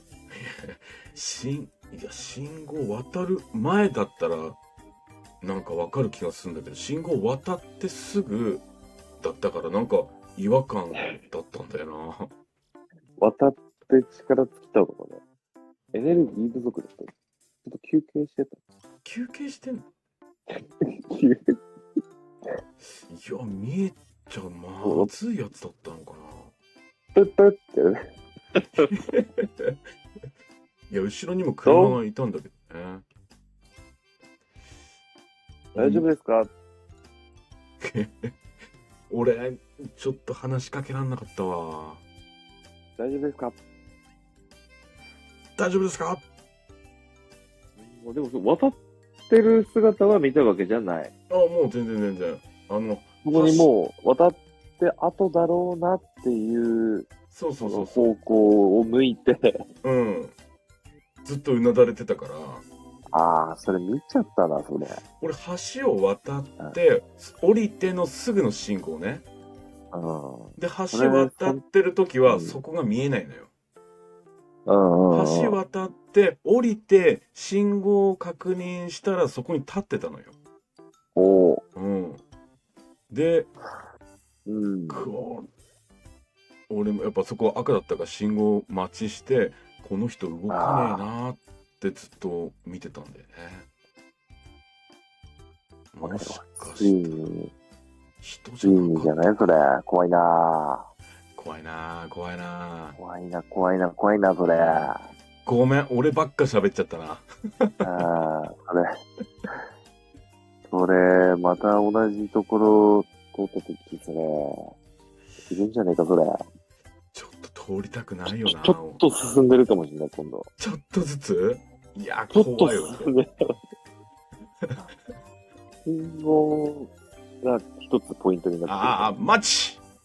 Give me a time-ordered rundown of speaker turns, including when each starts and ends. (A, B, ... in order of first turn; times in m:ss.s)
0:00.3-0:04.6 A
0:05.4-0:08.6 A
0:09.2-0:12.3 A
0:11.0-0:11.2 B
0:13.2-0:15.2 B
0:15.9-0:17.1 B
0:17.6-0:18.6 B
0:19.0-0:19.9 A
0:20.8-0:21.6 B
0:23.1-0:26.5 A
0:24.8-0:25.1 B
0:27.1-0:28.0 B
0:28.6-0:28.9 B
0:28.9-0:29.8 A
0:30.9-0:33.0 A
0:31.6-0:32.0 B
0:35.7-0:36.1 A
0:35.8-0:36.5 B
0:37.8-0:38.3 A
0:39.1-0:42.0 A
0:43.0-0:43.6 B
0:45.6-0:46.2 A
0:47.8-0:48.8 B
0:49.3-0:51.1 B
0:51.3-0:53.7 A
0:53.2-0:57.1 B
0:57.3-0:58.1 A
0:57.6-0:59.5 B
0:59.8-1:00.4 A
1:01.2-1:02.6 A
1:03.1-1:05.0 B
1:05.2-1:09.2 A
1:09.9-1:11.6 B
1:10.6-1:13.5 A
1:12.3-1:12.6 B
1:14.7-1:15.6 B
1:15.1-1:20.3 A
1:21.2-1:21.6 B
1:21.8-1:22.2 A
1:23.1-1:23.5 A
1:24.5-1:25.1 B
1:24.9-1:25.5 A
1:26.7-1:33.7 A
1:30.5-1:31.0 B
1:35.9-1:37.4 A
1:36.0-1:37.5 B
1:38.2-1:39.3 A
1:38.6-1:40.9 B
1:41.4-1:43.0 A
1:43.0-1:45.1 B
1:44.5-1:48.0 A
1:47.8-1:48.9 B
1:50.7-1:54.7 B
1:55.4-1:56.4 B
1:57.1-1:59.0 A
1:58.3-2:00.5 B
2:00.6-2:03.1 A
2:02.3-2:03.3 B
2:05.8-2:06.9 B
2:07.4-2:09.2 B
2:08.7-2:09.8 A